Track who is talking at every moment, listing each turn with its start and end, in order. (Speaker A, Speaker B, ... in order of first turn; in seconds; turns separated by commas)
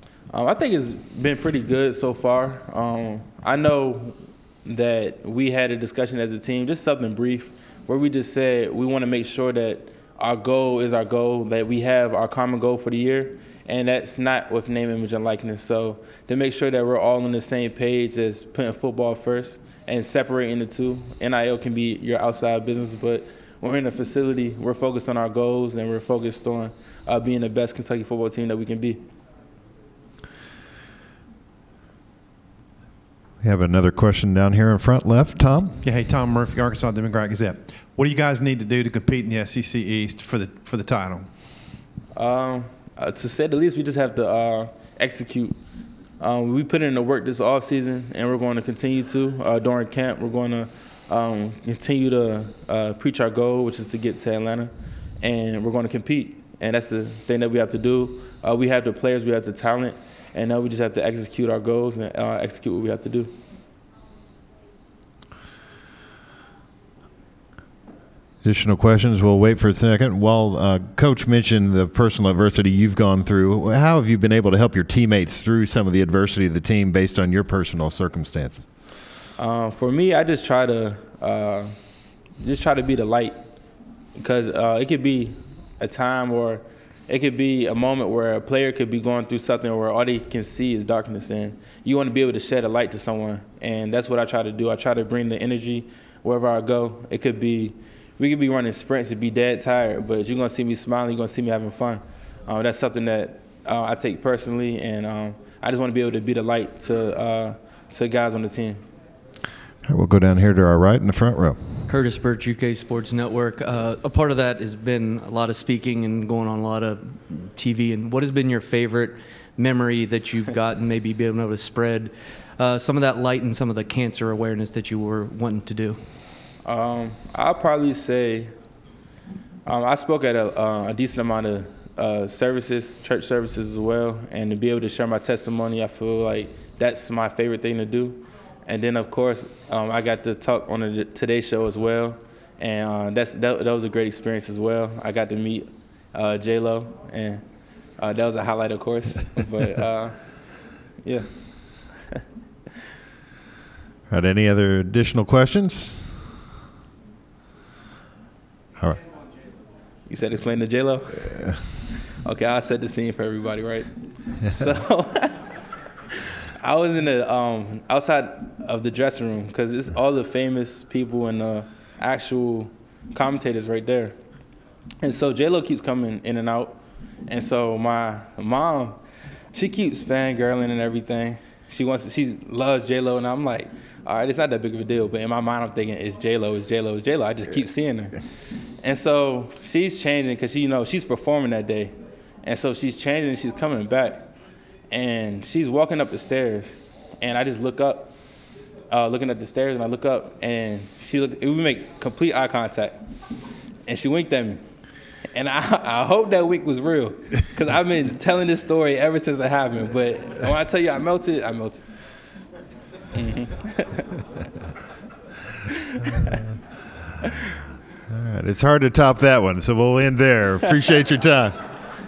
Speaker A: 0.3-29.0, Speaker B: 33.4-35.8, Speaker C: 35.8-41.3, Speaker A: 42.1-45.5, Speaker A: 46.2-63.3, Speaker B: 68.4-78.7, Speaker A: 79.4-81.7, Speaker A: 82.4-83.4, Speaker A: 84.2-108.8, Speaker B: 109.8-111.6, Speaker D: 111.9-126.0, Speaker A: 126.6-128.5, Speaker A: 129.7-147.4, Speaker A: 148.0-150.2, Speaker B: 154.1-156.2, Speaker A: 160.1-161.4, Speaker A: 162.2-163.9, Speaker A: 164.4-165.4, Speaker A: 166.6-174.1, Speaker A: 175.0-176.8, Speaker A: 177.3-179.0, Speaker A: 179.5-188.2, Speaker A: 188.8-194.3, Speaker A: 194.9-198.1, Speaker A: 198.9-203.0, Speaker A: 203.8-204.6, Speaker A: 205.3-211.8, Speaker A: 213.1-214.1, Speaker A: 215.9-216.4, Speaker B: 218.1-221.6